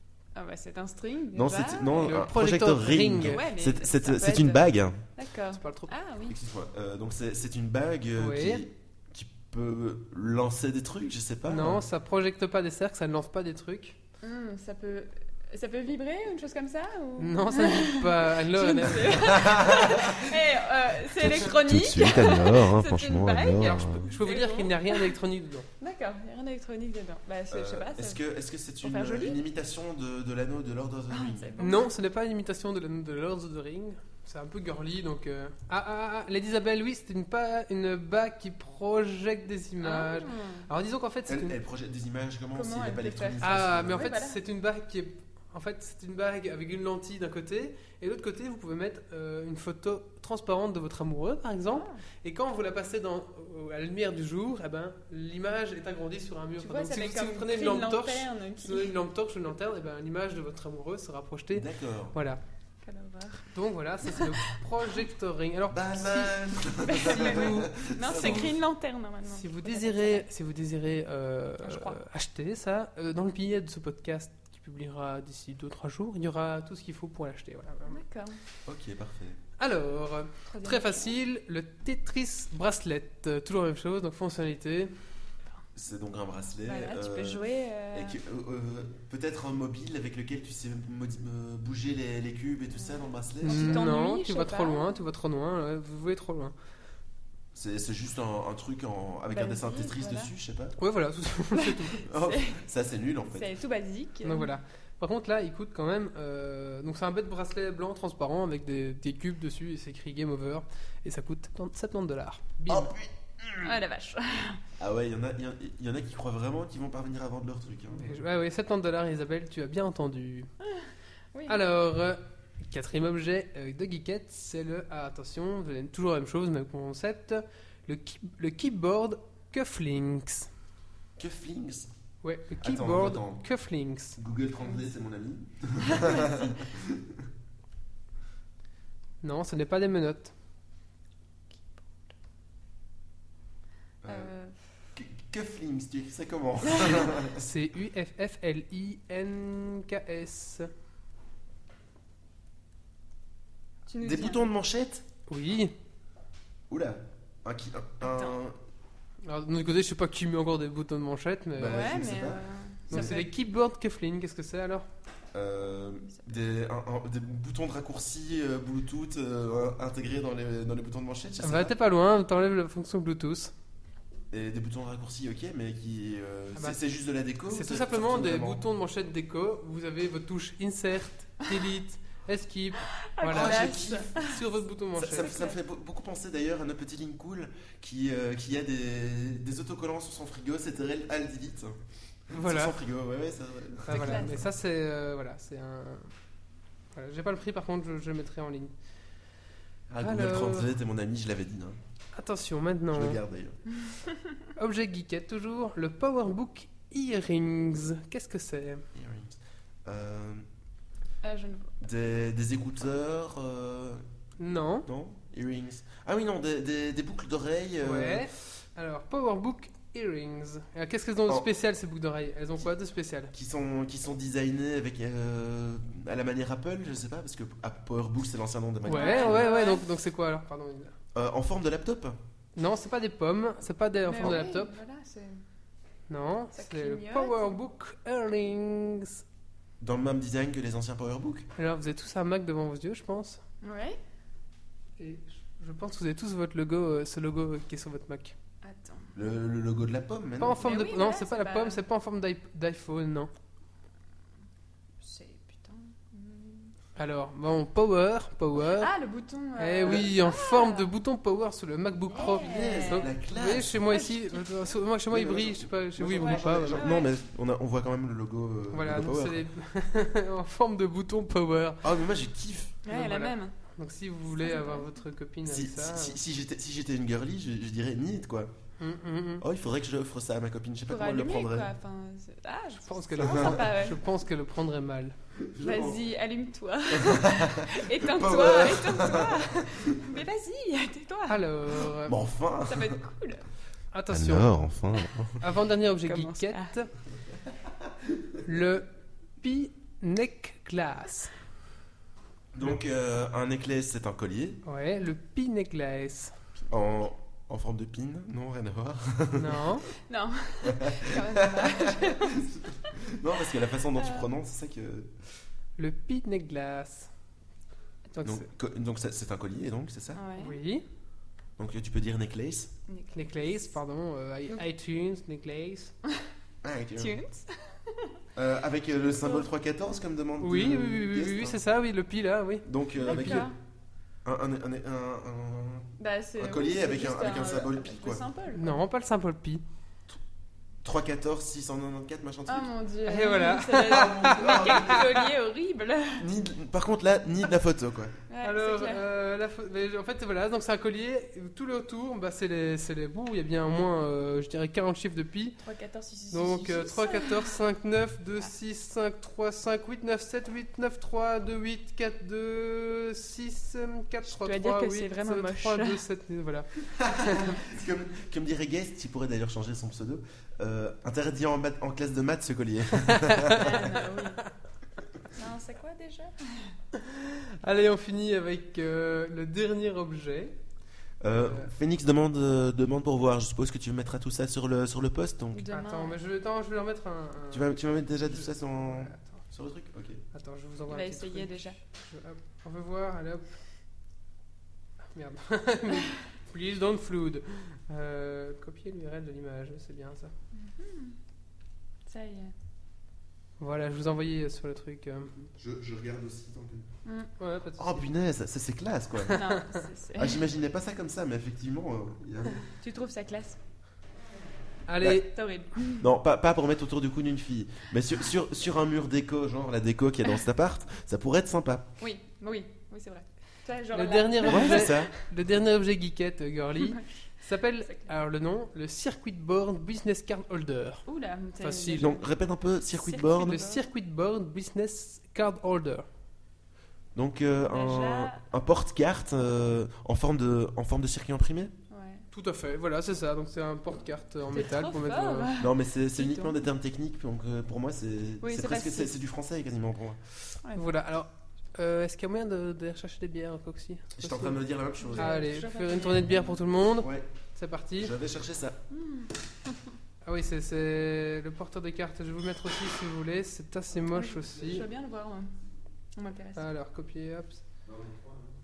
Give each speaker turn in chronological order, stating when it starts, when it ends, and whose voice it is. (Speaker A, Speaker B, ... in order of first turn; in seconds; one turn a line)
Speaker A: 0.3-2.1
Speaker B: 1.3-5.0
Speaker C: 2.0-3.4
Speaker A: 3.2-6.3
Speaker C: 5.5-5.9
Speaker B: 6.3-11.8
Speaker C: 8.2-8.6
Speaker C: 11.5-14.0
Speaker A: 14.2-25.1
Speaker C: 17.2-19.4
Speaker B: 19.1-20.3
Speaker B: 21.1-24.1
Speaker C: 23.6-25.7
Speaker A: 25.8-28.2
Speaker B: 27.5-31.6
Speaker A: 28.8-29.4
Speaker A: 31.1-31.9
Speaker C: 31.6-41.5
Speaker A: 39.8-40.7
Speaker B: 41.3-44.0
Speaker A: 42.5-44.4
Speaker C: 43.4-62.4
Speaker A: 51.7-52.0
Speaker A: 56.6-58.9
Speaker B: 61.5-62.1
Speaker A: 62.8-63.5
Speaker C: 63.5-66.4
Speaker A: 64.1-64.3
Speaker B: 65.7-68.6
Speaker A: 66.9-70.2
Speaker C: 67.0-68.4
Speaker C: 69.3-78.0
Speaker A: 71.6-72.0
Speaker A: 77.9-78.4
Speaker B: 78.7-79.4
Speaker C: 79.6-84.9
Speaker A: 80.5-81.2
Speaker B: 85.7-93.8
Speaker A: 86.7-88.2
Speaker A: 93.4-95.0
Speaker C: 93.4-96.5
Speaker B: 97.5-100.8
Speaker A: 99.3-100.3
Speaker C: 100.8-102.0
Speaker A: 101.5-102.6
Speaker B: 102.0-103.5
Speaker A: 103.3-104.5
Speaker C: 104.2-112.9
Speaker B: 112.7-113.8
Speaker A: 113.6-114.6
Speaker B: 114.8-118.2
Speaker C: 117.9-120.5
Speaker A: 120.6-121.6
Speaker C: 121.5-130.5
Speaker B: 131.2-131.9
Speaker C: 132.2-134.2
Speaker B: 132.6-133.5
Speaker B: 134.2-137.2
Speaker A: 134.6-134.9
Speaker A: 135.9-136.6
Speaker C: 139.2-140.3
Speaker B: 144.0-144.3
Speaker A: 144.0-144.6
Speaker B: 144.9-147.5
Speaker A: 146.7-147.1
Speaker C: 147.3-150.7
Speaker A: 153.9-154.5
Speaker B: 154.0-155.0
Speaker C: 155.3-155.7
Speaker B: 156.7-158.6
Speaker A: 158.0-158.4
Speaker C: 159.2-161.8
Speaker B: 161.6-163.2
Speaker A: 161.6-163.3
Speaker C: 162.9-164.8
Speaker B: 165.3-171.7
Speaker A: 166.1-166.3
Speaker C: 171.4-173.5
Speaker B: 174.3-178.6
Speaker C: 177.5-185.3
Speaker A: 183.1-184.4
Speaker B: 183.3-184.3
Speaker B: 184.9-191.8
Speaker A: 185.1-185.6
Speaker B: 192.3-194.4
Speaker C: 192.3-192.8
Speaker C: 193.8-196.1
Speaker A: 193.9-194.4
Speaker C: 196.9-198.7
Speaker B: 199.9-201.8
Speaker C: 200.0-200.7
Speaker C: 202.1-203.2
Speaker B: 202.9-203.6
Speaker C: 204.6-208.8
Speaker B: 208.9-210.4
Speaker A: 211.2-211.8
Speaker B: 211.8-214.0
Speaker C: 214.4-214.9
Speaker B: 214.8-218.3
Speaker C: 217.8-223.3
Speaker B: 223.3-229.5
Speaker C: 228.8-230.9
Speaker A: 228.9-229.8
Speaker B: 231.1-232.2
Speaker C: 232.6-234.7
Speaker A: 234.1-235.4
Speaker C: 236.1-239.2
Speaker A: 236.5-237.5
Speaker B: 239.8-241.5
Speaker C: 241.6-243.4
Speaker A: 243.6-244.0
Speaker C: 245.0-248.3
Speaker A: 248.6-249.1
Speaker B: 249.1-250.7
Speaker C: 250.4-253.3
Speaker A: 250.6-251.8
Speaker A: 255.0-256.7
Speaker C: 256.9-258.9
Speaker A: 258.7-260.9
Speaker C: 259.6-266.9
Speaker A: 262.1-263.1
Speaker B: 262.3-263.8
Speaker A: 263.9-264.5
Speaker B: 265.1-269.4
Speaker A: 266.1-267.1
Speaker C: 268.7-271.9
Speaker B: 271.8-272.8
Speaker A: 272.8-273.5
Speaker C: 272.9-276.2
Speaker A: 274.4-274.9
Speaker B: 275.4-278.5
Speaker C: 278.8-279.4
Speaker B: 279.4-281.7
Speaker A: 280.9-284.0
Speaker C: 282.9-285.1
Speaker B: 283.2-283.6
Speaker B: 285.4-286.0
Speaker A: 285.6-291.9
Speaker B: 286.9-290.0
Speaker C: 291.3-292.1
Speaker B: 292.1-293.0
Speaker A: 292.6-293.4
Speaker C: 293.9-294.5
Speaker B: 294.1-295.4
Speaker C: 295.4-296.9
Speaker A: 296.0-296.7
Speaker C: 298.4-301.3
Speaker B: 302.5-304.6
Speaker C: 304.6-306.3
Speaker B: 306.7-309.8
Speaker C: 309.3-309.8
Speaker A: 310.1-313.0
Speaker B: 310.6-315.2
Speaker A: 313.9-314.3
Speaker C: 315.8-317.1
Speaker C: 318.1-318.4
Speaker B: 318.2-320.2
Speaker A: 320.1-320.6
Speaker C: 320.4-320.8
Speaker B: 321.6-322.7
Speaker A: 322.9-323.6
Speaker C: 323.1-325.9
Speaker B: 326.6-327.1
Speaker A: 327.0-328.1
Speaker B: 328.4-331.6
Speaker A: 329.2-329.5
Speaker C: 330.4-333.4
Speaker B: 332.6-333.5
Speaker A: 333.0-333.6
Speaker B: 334.2-338.2
Speaker A: 336.0-338.8
Speaker C: 338.5-339.6
Speaker B: 340.8-342.7
Speaker A: 342.5-346.2
Speaker C: 343.1-345.0
Speaker B: 343.8-345.2
Speaker B: 346.2-348.1
Speaker A: 348.3-349.0
Speaker C: 348.4-355.6
Speaker A: 355.6-357.5
Speaker C: 356.3-366.7
Speaker A: 364.3-366.0
Speaker B: 366.9-373.9
Speaker C: 367.2-367.5
Speaker C: 373.0-373.7
Speaker A: 373.5-374.4
Speaker A: 375.3-376.7
Speaker C: 376.9-380.6
Speaker B: 381.2-385.6
Speaker C: 381.3-381.7
Speaker A: 385.5-386.2
Speaker C: 385.7-389.4
Speaker B: 387.5-390.2
Speaker C: 390.3-393.5
Speaker A: 390.9-391.8
Speaker C: 395.1-400.3
Speaker A: 400.5-401.2
Speaker A: 402.1-402.5
Speaker C: 403.6-405.4
Speaker B: 405.6-406.9
Speaker A: 407.0-407.3
Speaker C: 407.4-408.1
Speaker B: 407.8-409.4
Speaker C: 409.3-409.8
Speaker A: 409.3-410.4
Speaker B: 410.1-412.6
Speaker A: 412.7-413.6
Speaker C: 414.9-415.3
Speaker A: 415.1-416.0
Speaker B: 416.0-421.9
Speaker A: 422.0-425.1
Speaker C: 423.9-431.0
Speaker B: 424.4-425.1
Speaker A: 426.8-427.1
Speaker A: 427.8-428.1
Speaker A: 431.1-432.2
Speaker C: 431.6-432.1
Speaker B: 432.0-433.6
Speaker A: 432.9-433.8
Speaker C: 433.4-436.1
Speaker B: 437.1-441.7
Speaker A: 437.6-438.4
Speaker A: 441.9-442.2
Speaker C: 442.3-445.5
Speaker A: 444.5-446.5
Speaker B: 445.6-450.5
Speaker A: 448.4-449.1
Speaker C: 450.7-454.6
Speaker B: 454.1-455.3
Speaker A: 455.0-456.6
Speaker C: 455.1-458.1
Speaker B: 457.0-457.3
Speaker B: 458.0-458.8
Speaker A: 458.9-459.8
Speaker C: 460.2-464.8
Speaker A: 464.1-465.5
Speaker A: 466.1-466.7
Speaker C: 466.6-467.6
Speaker B: 467.9-468.5